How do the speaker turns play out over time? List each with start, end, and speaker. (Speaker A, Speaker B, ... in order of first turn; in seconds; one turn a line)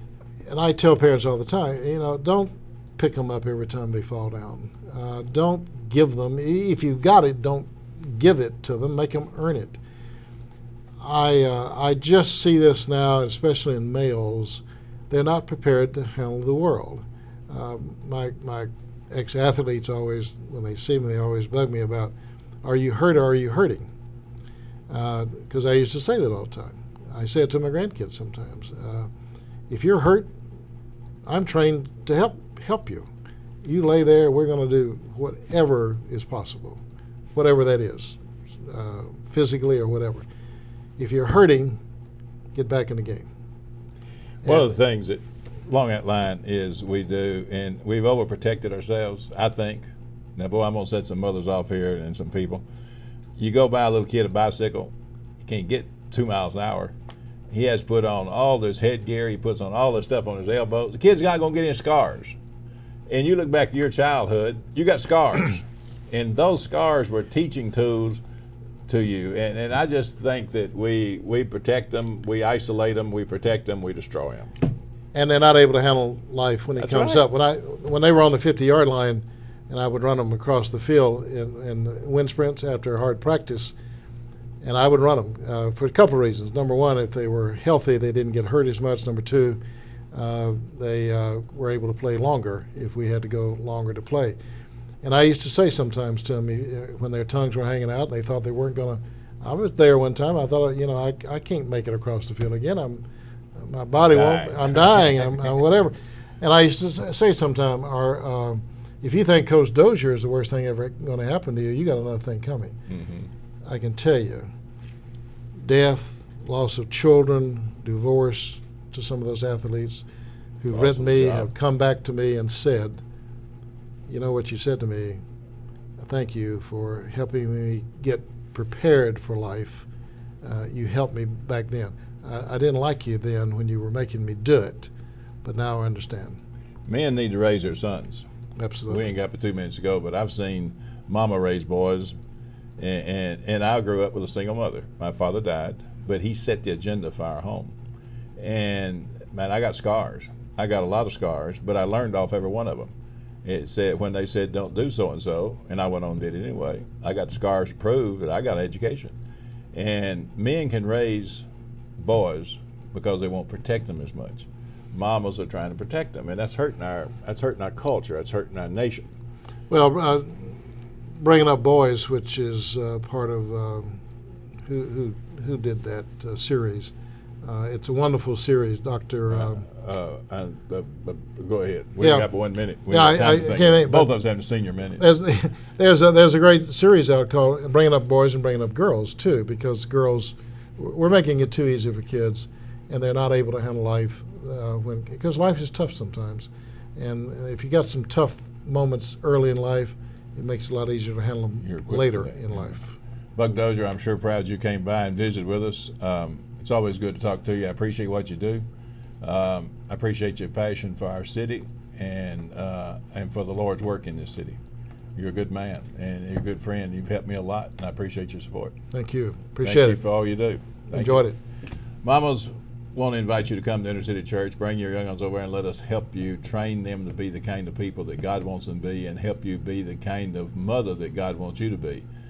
Speaker A: 0.5-9.8
Speaker A: 11.0-23.9
Speaker A: 24.9-29.1
Speaker A: 29.7-30.3
Speaker A: 31.2-33.1
Speaker A: 33.6-36.8
Speaker A: 37.4-40.3
Speaker A: 41.0-41.8
Speaker A: 42.5-43.3
Speaker B: 44.5-52.6
Speaker B: 53.4-56.9
Speaker B: 57.5-62.4
Speaker B: 63.1-68.2
Speaker B: 68.9-74.5
Speaker A: 75.1-83.8
Speaker B: 76.8-77.2
Speaker A: 84.6-89.6
Speaker A: 90.1-94.4
Speaker A: 95.0-103.0
Speaker A: 103.6-112.8
Speaker B: 104.1-105.5
Speaker B: 112.9-113.3
Speaker A: 113.7-114.5
Speaker A: 115.6-120.0
Speaker A: 120.6-123.0
Speaker B: 120.7-121.5
Speaker A: 124.1-125.2
Speaker A: 126.0-129.9
Speaker A: 130.4-134.9
Speaker A: 135.4-136.4
Speaker B: 136.9-138.3
Speaker A: 138.6-139.1
Speaker B: 138.9-142.2
Speaker B: 142.8-147.7
Speaker B: 148.4-152.9
Speaker B: 153.4-159.2
Speaker B: 159.7-161.5
Speaker B: 162.0-169.1
Speaker A: 169.7-170.6
Speaker A: 171.2-174.0
Speaker A: 174.7-179.7
Speaker B: 179.3-185.0
Speaker A: 182.0-182.3
Speaker A: 182.9-184.1
Speaker A: 185.0-203.0
Speaker B: 201.7-202.8
Speaker B: 203.4-208.7
Speaker B: 209.2-214.6
Speaker B: 215.2-218.7
Speaker A: 218.9-220.0
Speaker B: 219.6-221.2
Speaker A: 220.9-221.4
Speaker B: 222.0-232.1